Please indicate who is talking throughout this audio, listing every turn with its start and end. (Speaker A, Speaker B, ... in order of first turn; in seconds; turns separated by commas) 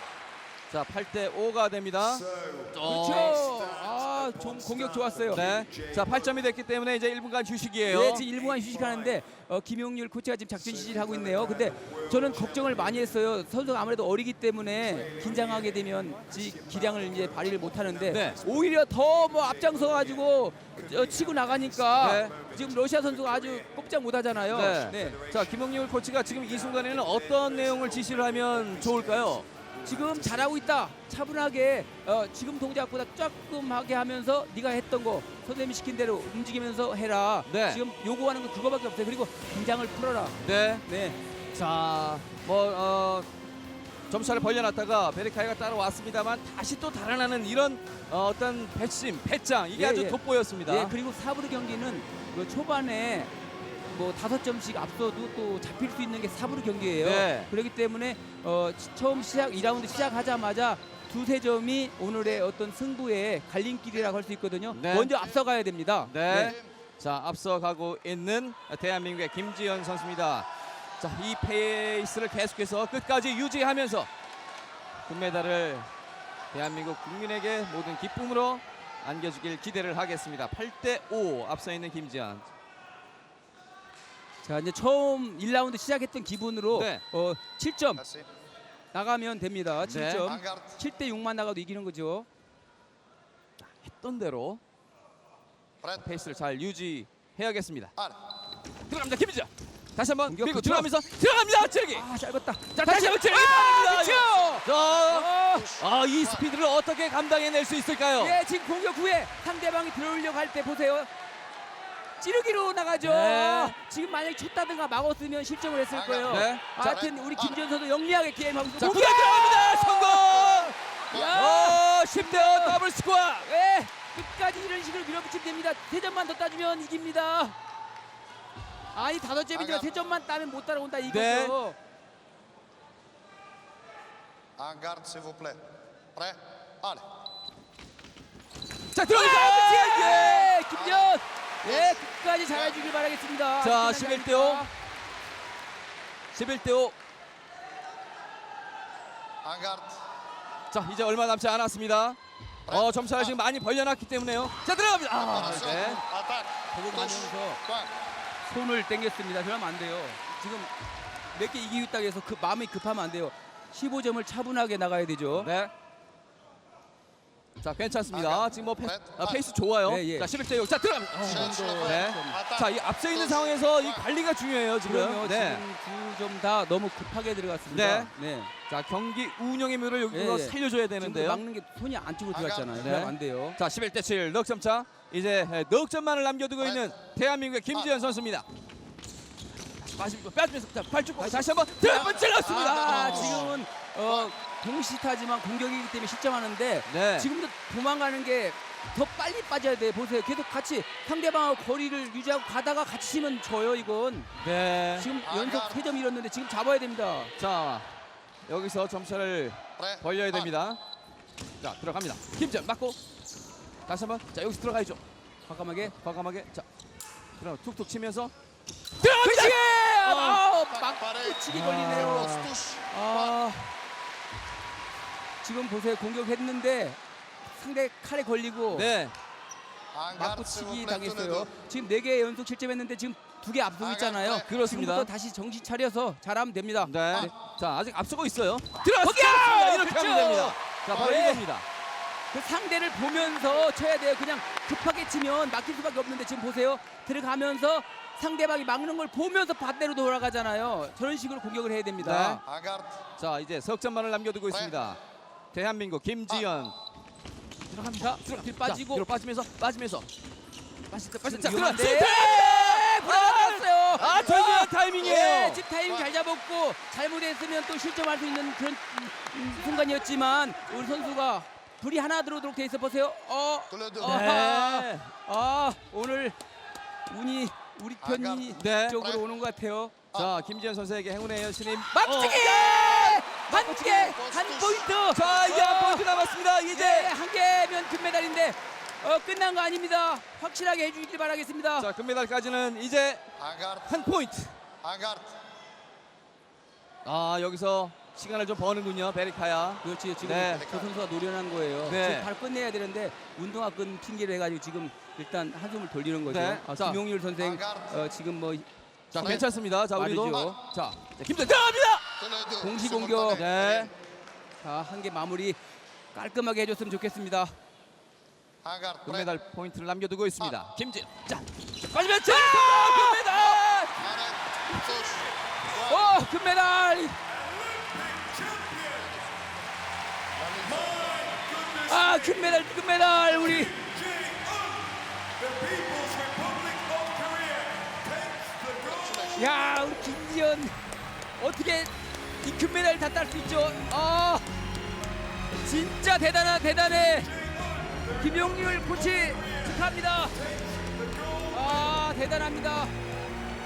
Speaker A: 0.7-3.5, Speaker B: 2.8-5.5, Speaker A: 5.3-8.3, Speaker B: 7.9-25.3, Speaker A: 18.1-18.4, Speaker A: 22.0-22.4, Speaker A: 24.5-29.5, Speaker B: 29.8-41.2, Speaker A: 37.5-37.8, Speaker A: 40.4-40.9, Speaker A: 41.5-43.3, Speaker A: 44.1-51.0, Speaker B: 49.7-53.3, Speaker B: 53.9-66.5, Speaker A: 57.0-57.5, Speaker A: 64.7-65.1, Speaker A: 66.1-70.5, Speaker A: 71.0-74.1, Speaker A: 75.1-75.9, Speaker A: 76.5-82.5, Speaker B: 84.4-88.0, Speaker A: 86.7-87.0, Speaker B: 88.9-92.3, Speaker A: 89.8-90.3, Speaker C: 90.3-90.7, Speaker A: 93.6-94.6, Speaker A: 95.9-98.0, Speaker A: 98.9-102.1, Speaker B: 100.3-100.9, Speaker B: 101.9-105.7, Speaker A: 102.7-108.4, Speaker C: 105.4-106.5, Speaker B: 108.2-111.1, Speaker B: 112.2-122.8, Speaker A: 113.0-113.8, Speaker C: 115.9-116.3, Speaker A: 116.2-116.9, Speaker C: 116.9-117.6, Speaker A: 118.8-120.8, Speaker A: 121.3-123.5, Speaker B: 123.4-127.6, Speaker B: 128.9-131.8, Speaker C: 129.6-129.9, Speaker A: 131.1-131.6, Speaker C: 134.6-135.6, Speaker C: 136.2-137.1, Speaker A: 138.9-140.6, Speaker B: 139.0-144.7, Speaker C: 140.7-141.1, Speaker C: 141.7-142.0, Speaker A: 143.6-144.7, Speaker A: 146.3-146.9, Speaker C: 149.4-150.0, Speaker A: 150.7-156.0, Speaker C: 152.7-153.3, Speaker C: 155.3-157.9, Speaker B: 156.7-157.6, Speaker B: 158.5-160.7, Speaker B: 161.3-165.5, Speaker A: 165.3-165.7, Speaker A: 167.6-175.6, Speaker C: 168.1-169.4, Speaker B: 169.8-170.3, Speaker B: 171.2-172.4, Speaker C: 171.3-172.7, Speaker C: 173.2-174.0, Speaker B: 174.8-178.5, Speaker A: 177.7-178.1, Speaker A: 178.7-181.4, Speaker B: 180.1-183.6, Speaker C: 182.3-182.7, Speaker A: 182.7-188.5, Speaker A: 189.8-193.6, Speaker B: 191.2-204.3, Speaker A: 196.9-197.3, Speaker A: 204.4-205.1, Speaker B: 205.0-207.3, Speaker C: 205.2-205.8, Speaker A: 207.4-207.9, Speaker A: 208.5-210.8, Speaker C: 209.8-210.1, Speaker A: 211.6-213.0, Speaker A: 213.9-215.0, Speaker B: 215.5-215.9, Speaker A: 215.8-216.7, Speaker A: 217.4-218.3, Speaker B: 219.0-223.7, Speaker A: 219.0-220.6, Speaker C: 220.6-223.4, Speaker A: 221.5-222.6, Speaker B: 225.4-228.9, Speaker A: 228.7-229.2, Speaker C: 229.9-231.5, Speaker B: 230.1-237.3, Speaker C: 233.8-234.5, Speaker A: 234.4-235.1, Speaker A: 236.8-241.7, Speaker B: 238.9-241.4, Speaker B: 242.3-252.4, Speaker A: 252.0-252.5, Speaker C: 252.4-253.0, Speaker A: 253.2-255.0, Speaker A: 255.5-256.8, Speaker A: 257.7-260.1, Speaker B: 258.0-259.1, Speaker A: 260.9-265.7, Speaker B: 261.2-276.4, Speaker C: 273.7-274.1, Speaker A: 274.0-275.1, Speaker B: 277.1-279.9, Speaker C: 278.0-279.2, Speaker A: 278.6-279.0, Speaker A: 280.1-283.4, Speaker B: 281.9-286.1, Speaker C: 282.9-284.9, Speaker A: 285.0-287.1, Speaker B: 286.7-291.9, Speaker A: 291.8-294.6, Speaker C: 293.4-293.9, Speaker C: 294.8-295.3, Speaker A: 297.0-300.7, Speaker B: 299.8-310.6, Speaker A: 301.8-302.3, Speaker A: 306.3-307.0, Speaker C: 307.4-307.9, Speaker A: 309.1-312.1, Speaker C: 310.2-310.6, Speaker C: 312.2-313.9, Speaker B: 312.6-313.5, Speaker A: 313.3-313.9, Speaker B: 314.6-315.6, Speaker B: 316.1-317.6, Speaker C: 318.6-319.3, Speaker A: 319.0-324.1, Speaker B: 322.0-323.5, Speaker C: 324.0-325.3, Speaker B: 325.7-327.2, Speaker C: 328.7-329.1, Speaker C: 330.4-331.4, Speaker B: 331.7-333.8, Speaker C: 338.8-339.4, Speaker B: 339.3-340.7, Speaker B: 341.4-341.9, Speaker B: 342.4-344.4, Speaker B: 345.6-347.3, Speaker B: 348.1-350.4, Speaker B: 351.5-352.9